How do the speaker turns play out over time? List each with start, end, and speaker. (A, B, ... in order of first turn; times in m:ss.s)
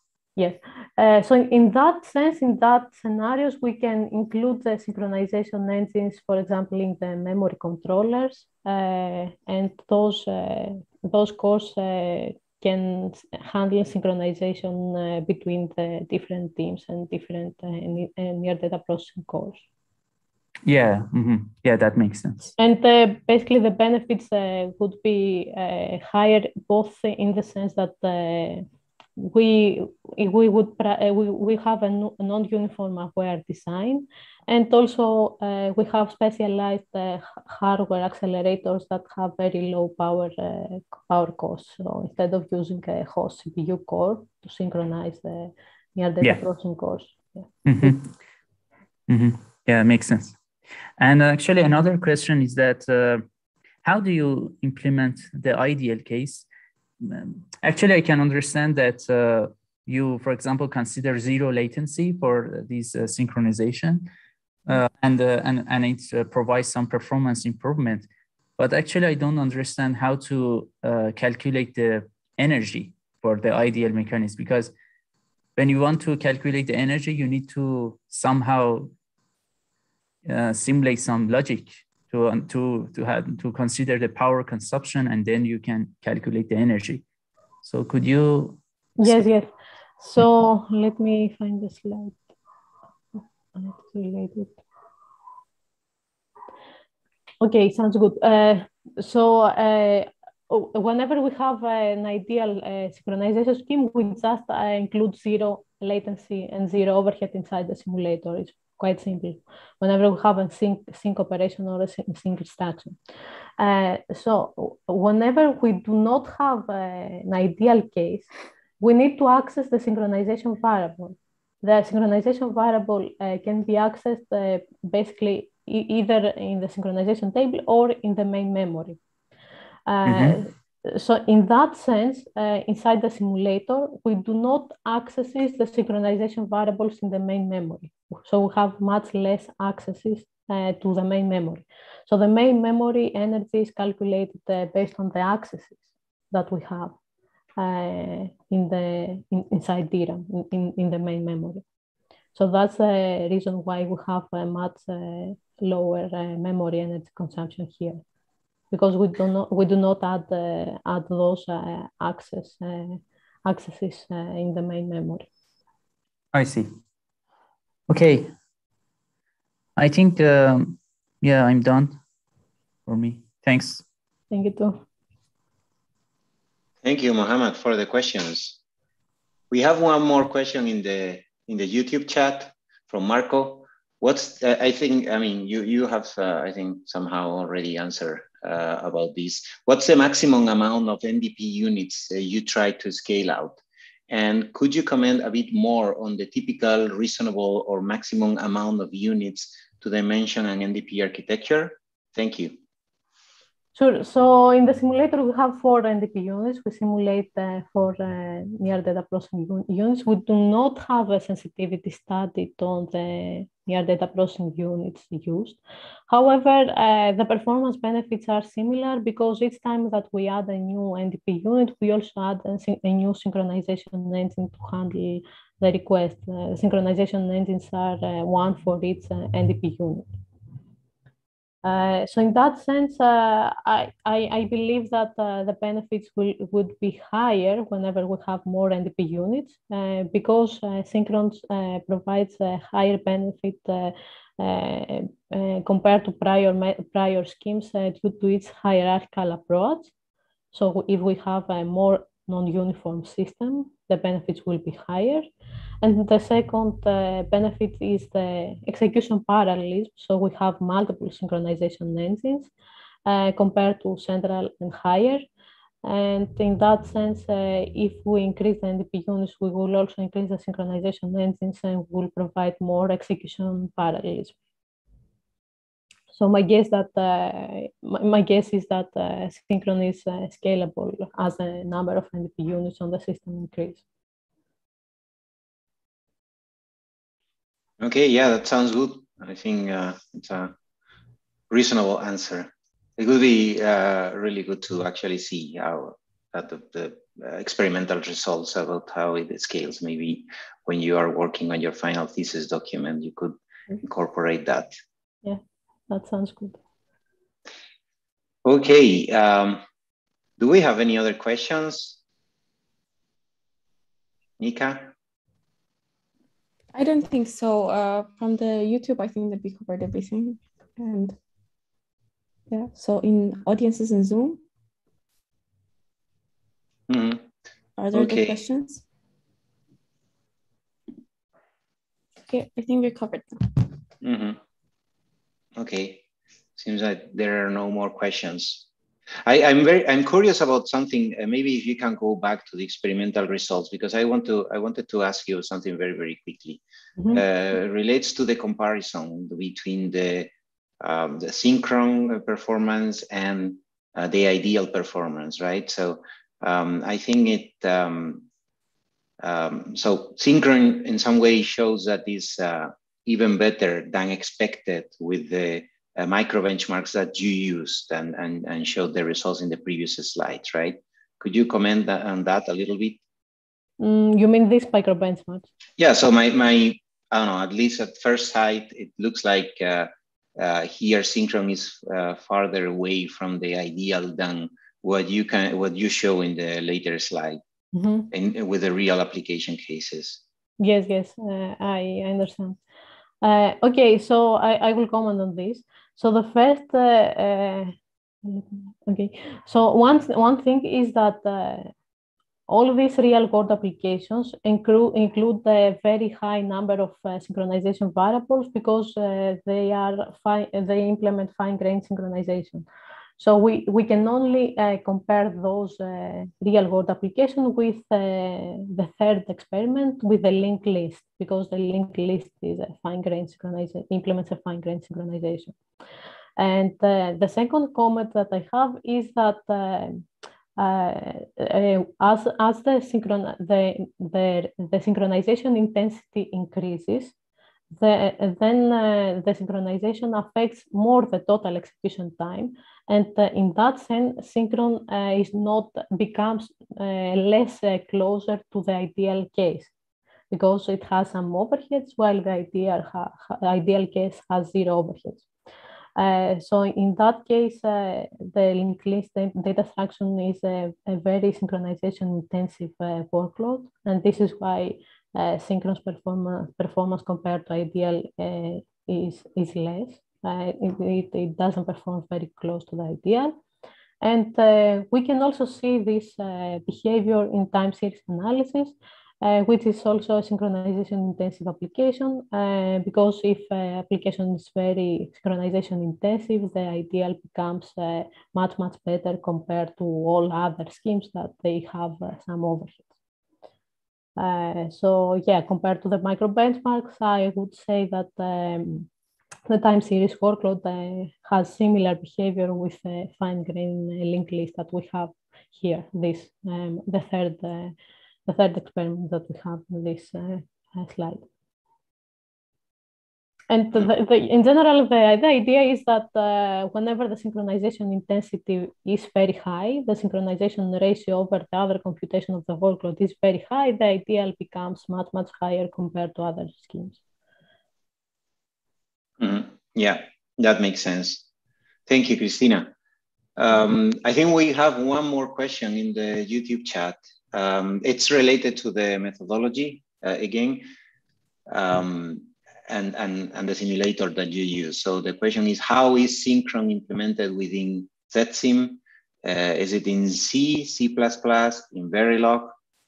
0:00.4-0:19.6 A
0:20.6-0:22.5 B
0:22.6-0:28.6 A
0:29.2-0:48.0 A
0:47.7-0:48.1 B
0:49.1-0:50.4 B
0:51.0-0:53.2 B
0:53.8-0:56.5 B
0:57.0-1:04.1 B
1:04.7-1:14.7 B
1:15.6-1:18.9 B
1:20.3-1:27.0 B
1:27.6-1:29.3 B
1:29.0-1:32.2 A
1:33.6-1:34.6 A
1:37.4-1:53.0 A
1:53.6-1:58.3 A
1:58.8-2:09.0 A
2:09.9-2:27.0 A
2:10.1-2:10.4 B
2:27.6-2:31.6 A
2:32.4-2:38.0 A
2:38.7-2:45.3 A
2:46.3-2:46.7 B
2:47.9-2:48.3 B
2:49.8-2:52.0 B
2:52.9-2:53.8 B
2:54.3-2:54.8 A
2:56.8-2:58.6 C
2:59.5-3:22.6 C
3:23.8-3:50.1 A
3:51.6-4:09.9 A
4:10.5-4:15.3 A
4:15.8-4:22.5 A
4:23.1-4:25.3 A
4:25.8-4:34.4 A
4:36.1-4:43.8 A
4:47.8-4:50.5 C
4:51.5-5:04.8 C
5:05.2-5:06.6 A
5:08.4-5:09.6 C
5:10.4-5:12.0 C
5:14.4-5:14.9 C
5:16.7-5:21.2 D
5:22.5-5:24.4 D
5:26.9-5:27.2 C
5:27.8-5:28.8 D
5:27.9-5:28.4 C
5:32.3-5:33.7 D
5:34.0-5:34.4 C
5:35.6-5:36.0 C
5:36.6-5:38.7 C
5:39.2-5:46.6 C
5:47.1-5:50.3 C
5:50.8-5:58.3 C
5:59.2-6:13.0 C
6:13.8-6:15.5 A
6:15.8-6:27.4 C
6:27.7-6:28.1 A
6:28.1-6:30.2 C
6:30.6-6:32.6 A
6:33.2-6:41.7 A
6:42.5-6:52.7 A
6:53.2-7:05.6 A
7:06.4-7:10.0 A
7:10.6-7:17.1 A
7:17.7-7:29.7 A
7:30.3-7:35.3 A
7:36.0-7:53.4 A
7:54.0-8:12.9 A
8:14.2-8:18.9 A
8:19.5-8:27.7 A
8:28.3-8:31.3 A
8:33.5-8:47.0 A
8:49.2-8:51.3 C
8:51.9-8:52.7 C
8:53.4-9:00.6 C
9:01.5-9:12.6 C